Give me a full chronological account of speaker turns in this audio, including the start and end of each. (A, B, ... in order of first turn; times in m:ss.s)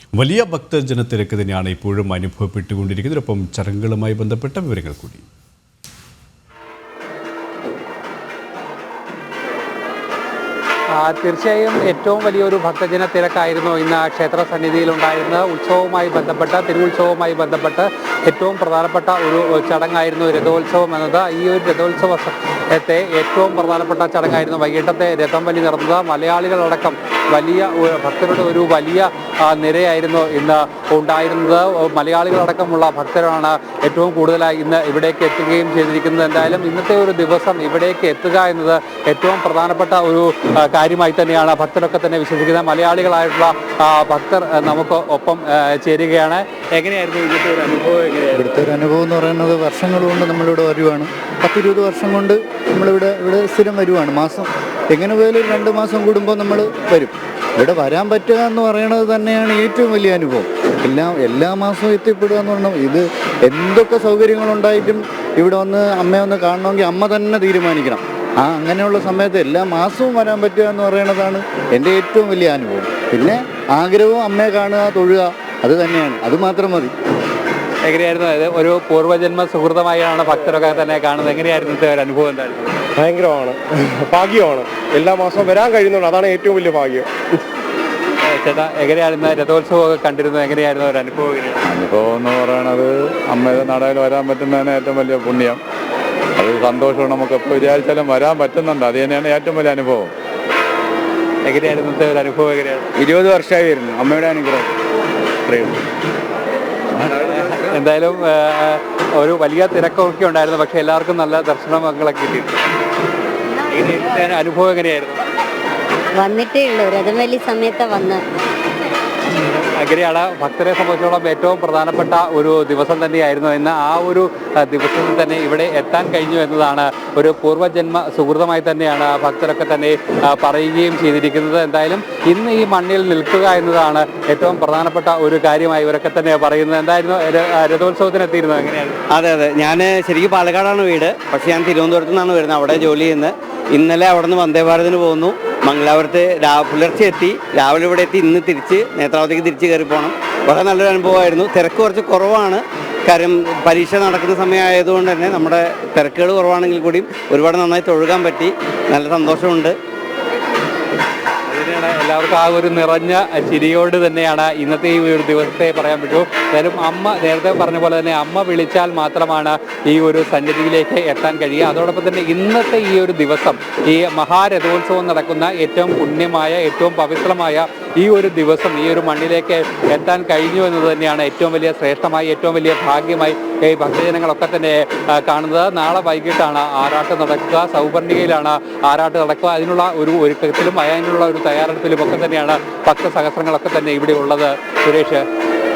0:00.2-0:05.3 A
0:10.9-0:48.6 B
0:48.4-1:16.9 C
1:17.8-1:22.8 B
1:23.0-1:23.6 D
1:24.1-1:27.1 D
1:28.2-1:31.6 B
1:31.6-1:35.6 E
1:36.4-1:40.1 E
1:41.4-1:42.9 B
1:43.0-1:44.7 E
1:45.5-1:45.8 E
1:47.2-1:52.6 B
1:53.6-1:55.2 B
1:56.2-1:58.2 F
1:59.3-2:19.0 B
2:19.1-2:39.8 G
2:41.5-3:15.2 B